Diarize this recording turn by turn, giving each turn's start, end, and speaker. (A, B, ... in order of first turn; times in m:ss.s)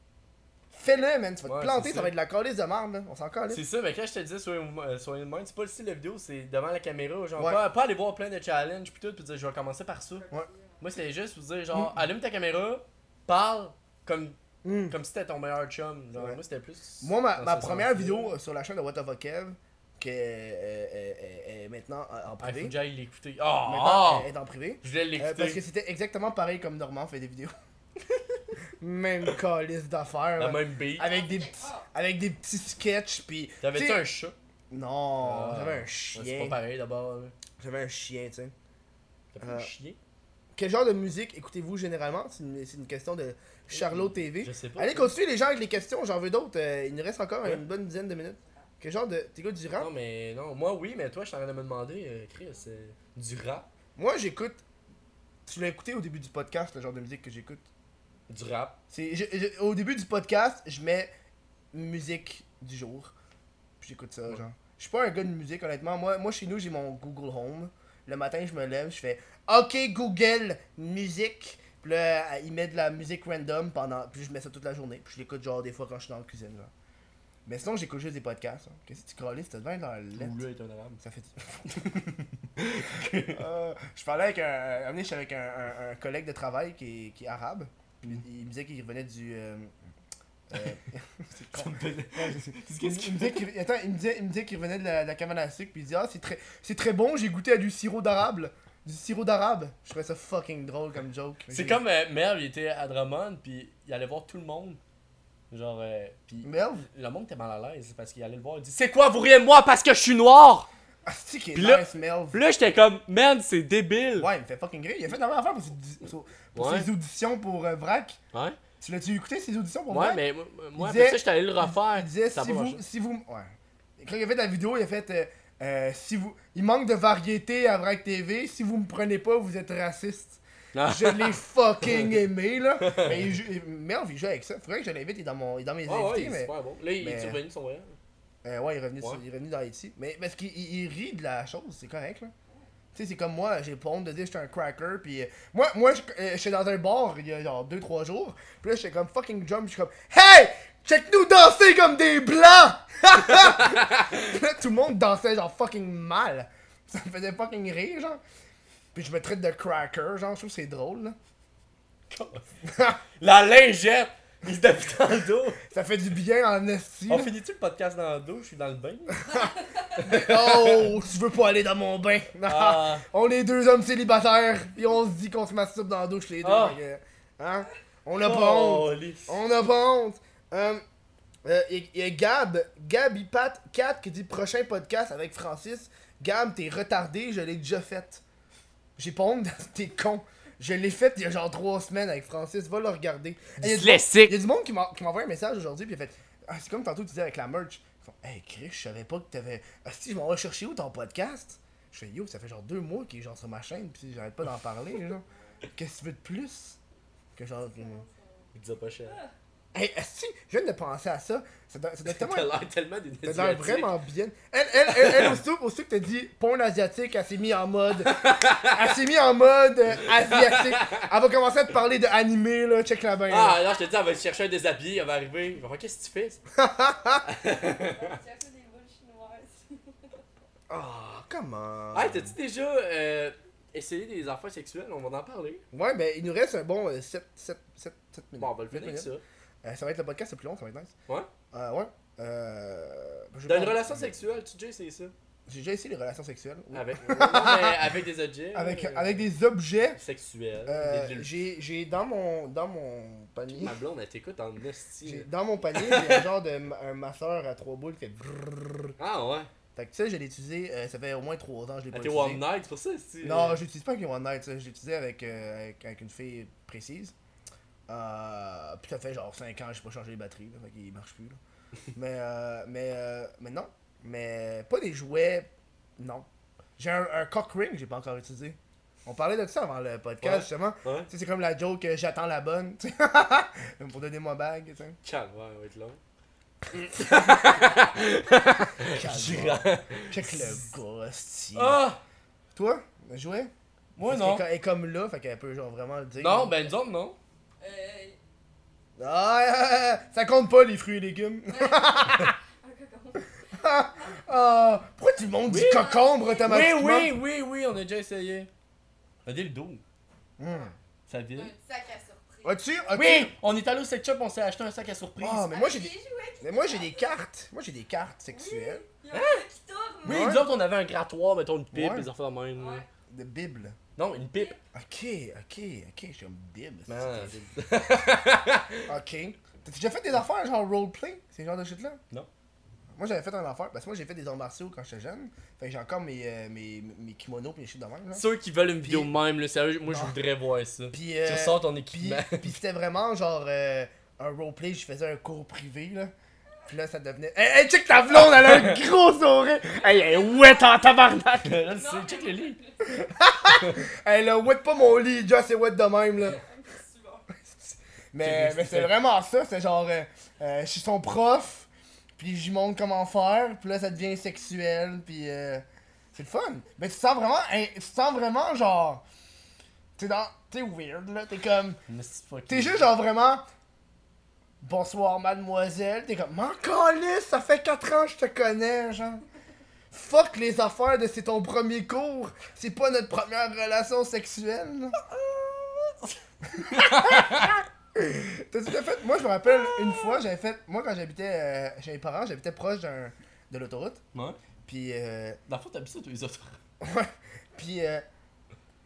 0:00.7-0:03.6 A
0:01.4-0:02.1 B
0:03.5-0:10.2 B
0:10.2-0:10.8 C
0:10.8-0:18.4 B
0:11.7-0:12.0 A
0:14.6-0:14.9 A
0:17.0-0:22.7 A
0:22.4-0:24.3 B
0:23.6-0:27.5 A
0:24.8-0:25.6 B
0:28.8-0:34.0 A
0:30.4-0:31.2 B
0:31.0-0:31.8 C
0:33.6-0:34.3 B
0:34.7-0:36.6 A
0:35.2-0:37.3 B
0:37.6-0:38.5 A
0:39.3-0:40.0 B
0:39.4-0:39.7 A
0:40.6-0:49.9 A
0:43.7-0:45.1 B
0:49.8-0:53.7 B
0:54.0-0:54.6 A
0:55.4-0:57.6 A
0:58.3-0:58.8 B
0:58.9-1:01.1 A
1:01.7-1:03.1 A
1:03.8-1:16.7 A
1:17.4-1:20.4 A
1:20.2-1:21.0 B
1:21.0-1:21.8 A
1:21.6-1:23.4 B
1:23.3-1:29.7 A
1:30.5-1:41.8 A
1:31.5-1:33.4 B
1:41.5-1:44.8 B
1:45.5-1:50.7 B
1:46.4-1:46.8 A
1:51.0-1:52.4 A
1:51.5-1:54.3 B
1:54.2-1:58.2 A
1:56.5-1:56.9 B
1:58.8-2:00.2 A
1:59.9-2:02.8 B
2:00.8-2:17.4 A
2:10.7-2:12.2 B
2:12.8-2:13.3 B
2:15.8-2:18.0 B
2:18.4-2:22.3 A
2:22.9-2:38.2 A
2:33.1-2:34.3 B
2:38.9-2:41.2 A
2:42.1-2:42.5 B
2:42.6-2:43.0 A
2:43.2-2:45.6 B
2:45.7-2:47.3 A
2:47.1-2:49.4 B
2:49.3-2:49.9 C
2:50.0-2:50.9 B
2:50.0-3:00.8 A
2:52.4-2:53.0 B
2:56.4-2:56.8 B
2:58.2-2:59.4 B
3:01.4-3:08.2 A
3:09.0-3:25.2 A
3:13.6-3:14.3 B
3:25.7-3:26.8 A
3:27.3-3:28.0 A
3:27.6-3:28.3 C
3:28.5-3:29.2 B
3:29.7-3:32.5 A
3:32.0-3:33.9 B
3:33.2-3:43.6 A
3:34.9-3:35.4 B
3:38.0-3:38.9 B
3:40.0-3:41.1 B
3:43.3-3:46.4 B
3:46.6-3:47.2 A
3:47.2-3:48.2 B
3:47.4-3:50.2 C
3:50.7-3:52.3 A
3:51.9-3:55.6 B
3:55.7-3:59.1 A
3:58.4-3:59.2 B
3:59.6-4:00.9 A
4:01.5-4:04.2 A
4:03.4-4:05.1 B
4:05.5-4:07.9 A
4:06.7-4:09.2 B
4:08.5-4:10.0 A
4:10.0-4:11.3 B
4:10.6-4:13.7 A
4:13.5-4:16.2 B
4:15.0-4:18.9 A
4:19.0-4:19.5 B
4:19.8-4:22.4 A
4:21.9-4:23.6 B
4:23.2-4:27.1 A
4:27.9-4:31.4 A
4:31.9-4:36.2 A
4:36.8-4:45.0 A
4:40.2-4:41.1 B
4:45.0-4:46.0 B
4:46.7-4:47.2 A
4:46.9-4:50.7 B
4:47.3-4:48.7 C
4:48.9-4:51.8 A
4:51.5-4:52.0 B
4:52.5-4:53.5 A
4:54.0-4:54.4 B
4:54.0-4:56.6 A
4:56.2-4:57.2 B
4:57.6-4:58.2 C
4:59.0-5:02.4 A
5:01.5-5:03.4 C
5:03.5-5:07.1 A
5:05.5-5:05.9 B
5:05.5-5:06.6 C
5:06.4-5:08.5 B
5:09.2-5:09.8 B
5:10.4-5:10.7 A
5:11.1-5:11.5 B
5:11.3-5:12.7 C
5:12.4-5:13.3 A
5:12.9-5:15.5 B
5:15.2-5:18.8 A
5:15.4-5:17.2 C
5:18.3-5:20.4 C
5:19.1-5:19.4 B
5:20.0-5:22.8 B
5:20.0-5:20.4 A
5:21.7-5:22.1 A
5:22.5-5:22.8 C
5:23.1-5:23.8 A
5:24.0-5:24.6 B
5:24.3-5:24.6 C
5:24.7-5:27.4 A
5:26.9-5:28.9 B
5:28.9-5:32.0 A
5:32.9-5:38.2 A
5:38.1-5:42.5 B
5:38.8-5:39.1 A
5:39.9-5:40.2 A
5:40.9-5:46.1 A
5:46.7-5:51.6 A
5:48.3-5:48.8 B
5:49.8-5:51.0 C
5:51.4-5:52.6 B
5:51.7-5:52.9 C
5:52.8-5:56.4 A
5:53.5-5:53.8 B
5:56.2-5:57.4 C
5:58.1-6:09.0 A
5:58.2-5:58.9 B
6:10.0-6:11.8 A
6:11.9-6:12.9 B
6:12.5-6:13.5 A
6:14.6-6:19.2 A
6:19.9-6:25.0 A
6:25.2-6:27.5 B
6:26.5-6:34.0 A
6:34.6-6:35.4 A
6:35.5-6:36.6 B
6:36.8-6:38.0 A